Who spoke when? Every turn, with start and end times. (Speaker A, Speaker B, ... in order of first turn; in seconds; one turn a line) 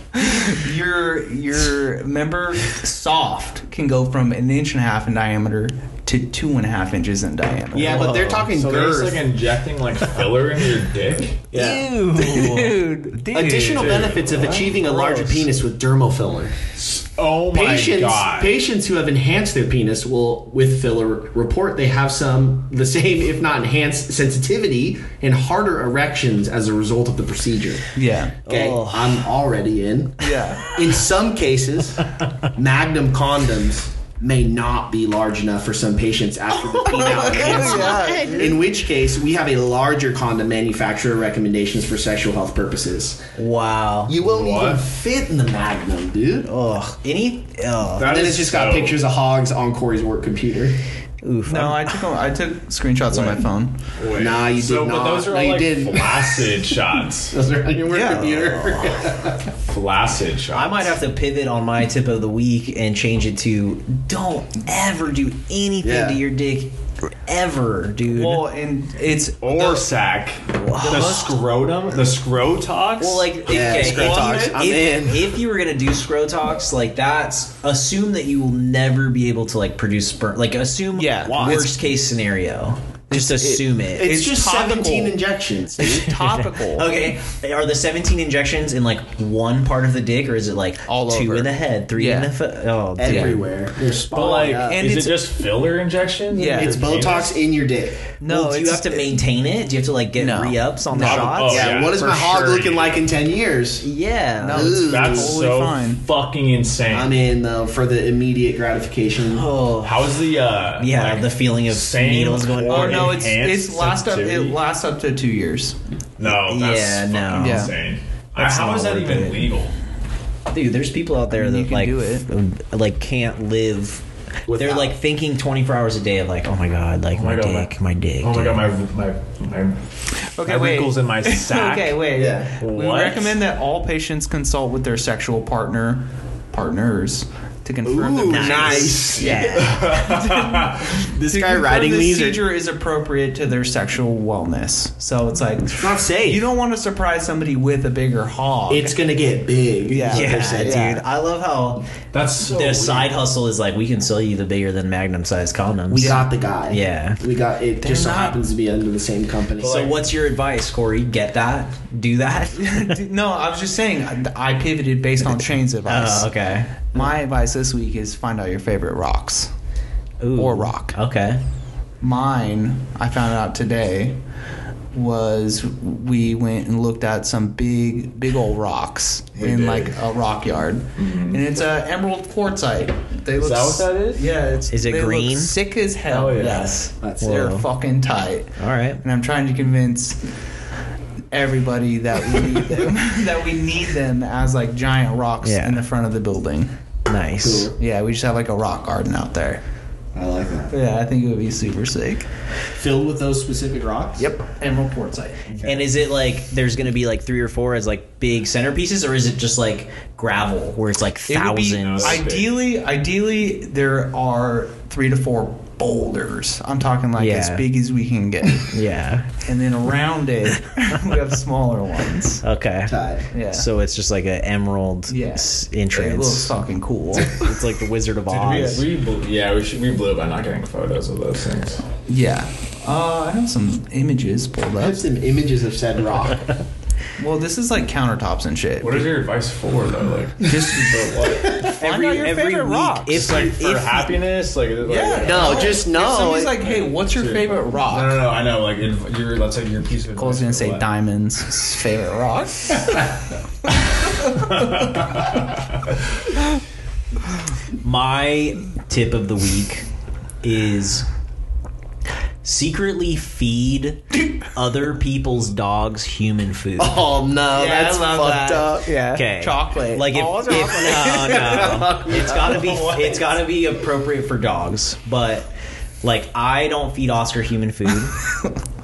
Speaker A: 0.1-8.1
Speaker B: 7.7-9.3
Speaker C: 7.8-8.5
Speaker D: 8.5-11.4
Speaker B: 11.5-11.9
Speaker C: 11.5-14.1
Speaker A: 12.1-13.3
Speaker B: 13.3-16.6
Speaker D: 13.5-15.4
Speaker D: 16.8-18.5
Speaker B: 17.5-27.9
Speaker A: 27.9-28.4
Speaker C: 28.4-29.3
Speaker B: 28.4-43.2
Speaker A: 30.2-30.7
Speaker A: 36.9-38.6
Speaker C: 36.9-38.5
Speaker C: 43.4-44.1
Speaker B: 44.1-46.5
Speaker D: 44.2-44.8
Speaker C: 46.5-48.1
Speaker D: 48.0-49.0
Speaker B: 48.0-50.8
Speaker C: 51.2-51.9
Speaker A: 51.5-53.8
Speaker C: 53.1-53.4
Speaker D: 54.0-57.4
Speaker B: 54.1-56.5
Speaker B: 57.3-59.5
Speaker A: 57.9-58.3
Speaker C: 58.1-59.0
Speaker D: 59.6-61.0
Speaker C: 60.5-66.7
Speaker B: 65.8-66.2
Speaker C: 67.3-68.5
Speaker A: 68.1-69.9
Speaker D: 69.4-74.5
Speaker C: 70.5-71.3
Speaker A: 70.7-71.4
Speaker C: 73.0-84.2
Speaker B: 73.5-75.3
Speaker A: 80.9-81.7
Speaker B: 81.2-81.7
Speaker A: 83.1-85.2
Speaker B: 84.0-86.2
Speaker A: 85.8-86.9
Speaker C: 86.2-93.5
Speaker A: 90.9-92.3
Speaker B: 93.0-94.8
Speaker A: 93.0-93.4
Speaker D: 94.1-97.4
Speaker A: 94.5-95.3
Speaker A: 96.3-96.8
Speaker B: 96.5-98.0
Speaker A: 98.2-99.1
Speaker C: 98.2-101.9
Speaker A: 100.2-101.3
Speaker D: 101.0-103.0
Speaker B: 101.1-103.9
Speaker C: 103.8-104.8
Speaker A: 104.4-106.0
Speaker B: 104.5-105.4
Speaker D: 104.7-107.2
Speaker B: 106.9-109.5
Speaker C: 109.3-110.1
Speaker D: 109.8-114.6
Speaker C: 110.8-113.2
Speaker A: 112.7-115.8
Speaker D: 116.2-119.7
Speaker C: 116.2-117.7
Speaker A: 117.3-117.7
Speaker C: 118.4-119.5
Speaker C: 120.5-128.7
Speaker A: 121.3-122.3
Speaker B: 124.5-124.9
Speaker D: 127.1-129.8
Speaker A: 130.3-149.0
Speaker D: 130.4-132.0
Speaker B: 132.1-132.5
Speaker D: 132.6-133.4
Speaker B: 137.8-139.5
Speaker C: 138.2-139.9
Speaker D: 139.5-141.0
Speaker B: 141.0-142.4
Speaker B: 145.8-146.4
Speaker B: 148.7-151.0
Speaker A: 149.9-151.0
Speaker C: 150.1-151.9
Speaker D: 152.1-153.1
Speaker C: 152.4-157.2
Speaker B: 155.9-159.8
Speaker A: 155.9-156.2
Speaker A: 157.8-158.4
Speaker D: 159.6-160.0
Speaker C: 159.6-163.0
Speaker A: 162.6-166.3
Speaker C: 165.9-166.7
Speaker A: 166.9-169.5
Speaker C: 170.2-171.4
Speaker A: 170.3-170.9
Speaker A: 172.0-174.2
Speaker A: 174.9-190.2
Speaker D: 179.4-179.9
Speaker D: 181.0-181.4
Speaker D: 183.3-184.2
Speaker C: 184.7-185.5
Speaker D: 186.1-186.8
Speaker B: 187.0-187.4
Speaker C: 187.2-187.7
Speaker C: 188.6-189.0
Speaker A: 191.3-196.7
Speaker C: 195.4-195.8
Speaker C: 197.1-197.7
Speaker B: 197.4-197.8
Speaker A: 197.8-199.6
Speaker B: 200.1-200.7
Speaker A: 200.7-202.3
Speaker B: 202.7-204.3
Speaker A: 204.2-205.4
Speaker B: 205.5-205.8
Speaker C: 205.6-212.2
Speaker A: 211.3-218.7
Speaker D: 211.8-212.6
Speaker C: 217.2-217.6
Speaker C: 218.7-219.4
Speaker A: 219.4-222.4
Speaker C: 222.4-226.5
Speaker B: 222.9-223.3
Speaker A: 223.3-223.7
Speaker A: 225.1-227.4
Speaker C: 227.2-228.8
Speaker D: 228.3-231.8
Speaker A: 228.4-228.8
Speaker A: 232.1-235.0
Speaker B: 234.8-236.5
Speaker A: 237.2-239.2
Speaker D: 238.8-241.7
Speaker A: 240.5-243.2
Speaker C: 241.6-244.2
Speaker D: 243.1-245.8
Speaker A: 244.8-248.2
Speaker B: 245.2-246.6
Speaker D: 246.6-250.8
Speaker A: 250.2-253.1
Speaker D: 254.3-255.6
Speaker C: 257.8-259.9
Speaker C: 260.4-261.1
Speaker C: 262.4-267.0
Speaker B: 266.8-268.9
Speaker A: 267.5-272.7
Speaker C: 269.1-275.5
Speaker B: 271.0-272.9
Speaker C: 276.0-278.2